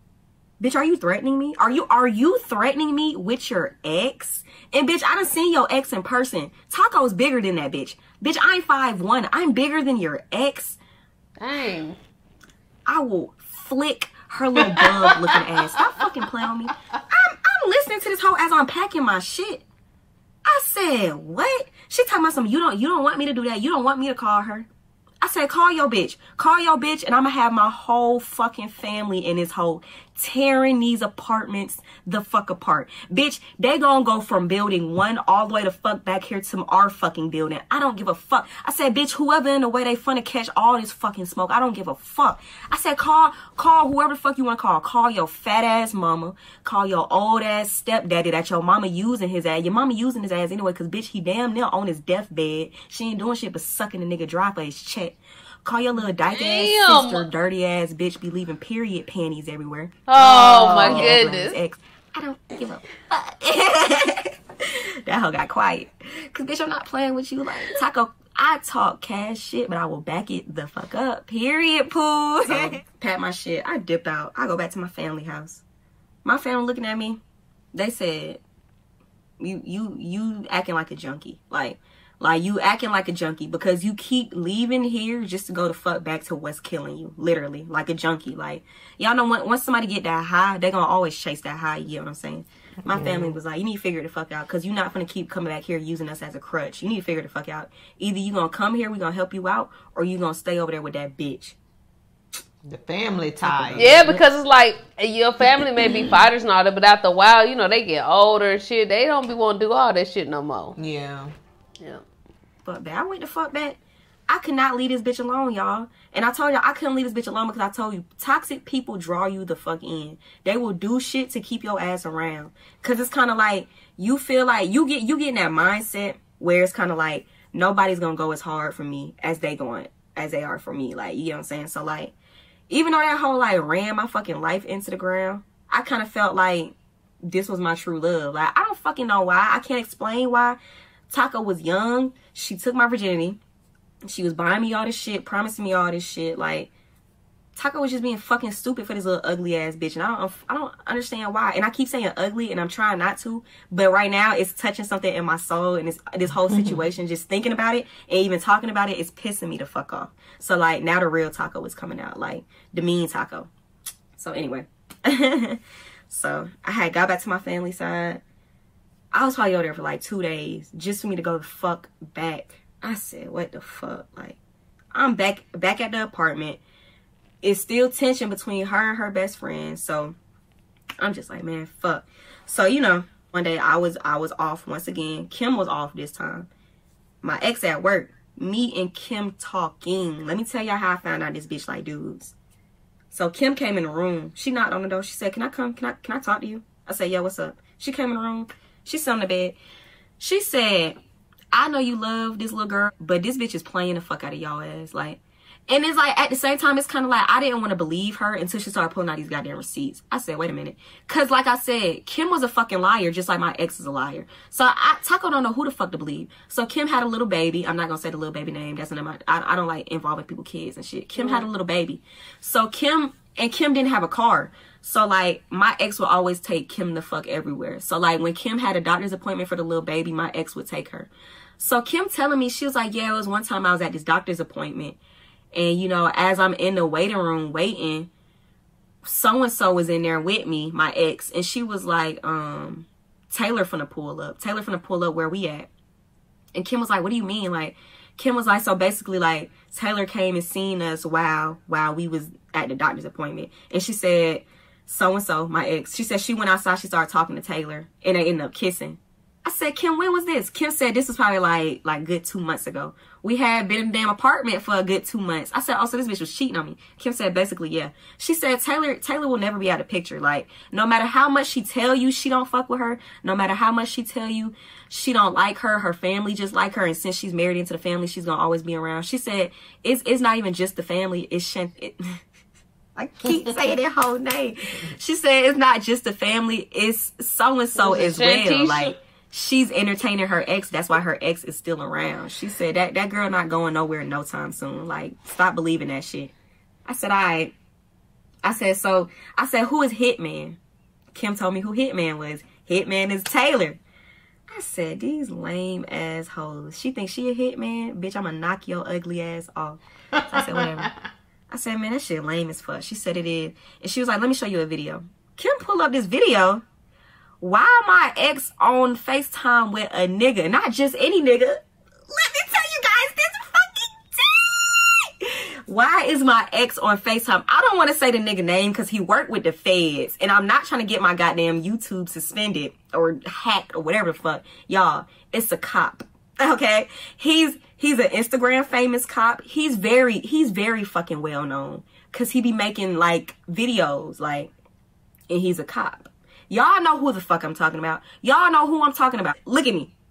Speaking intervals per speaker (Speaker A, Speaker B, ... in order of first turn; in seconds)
Speaker A: 0.6-10.8, 12.8-19.6, 20.4-24.7, 25.2-75.6, 76.2-77.2, 77.7-78.4, 79.4-101.5, 103.4-104.2, 112.6-113.8, 114.3-132.1, 132.7-136.7, 137.2-140.6, 141.1-143.4, 144.1-146.7, 147.6-163.5, 164.2-168.2, 169.1-174.4, 174.9-176.6, 177.4-180.1, 181.0-186.5, 187.2-192.3, 193.1-199.6, 200.2-201.0, 201.5-235.0, 235.5-238.1, 239.0-245.7, 246.5-282.2, 282.9-296.3, 296.9-297.5, 298.4-300.6, 301.1-303.8, 304.5-310.9, 311.5-316.6, 317.4-344.5, 345.3-349.9
Speaker B: 11.4-12.0, 14.8-15.2, 56.2-57.3, 60.1-61.6, 103.8-110.8, 221.1-221.5, 287.7-288.9
Speaker C: 60.8-61.2, 72.5-72.8, 92.8-93.4, 102.6-104.0, 110.8-111.3, 156.5-156.8, 310.3-310.9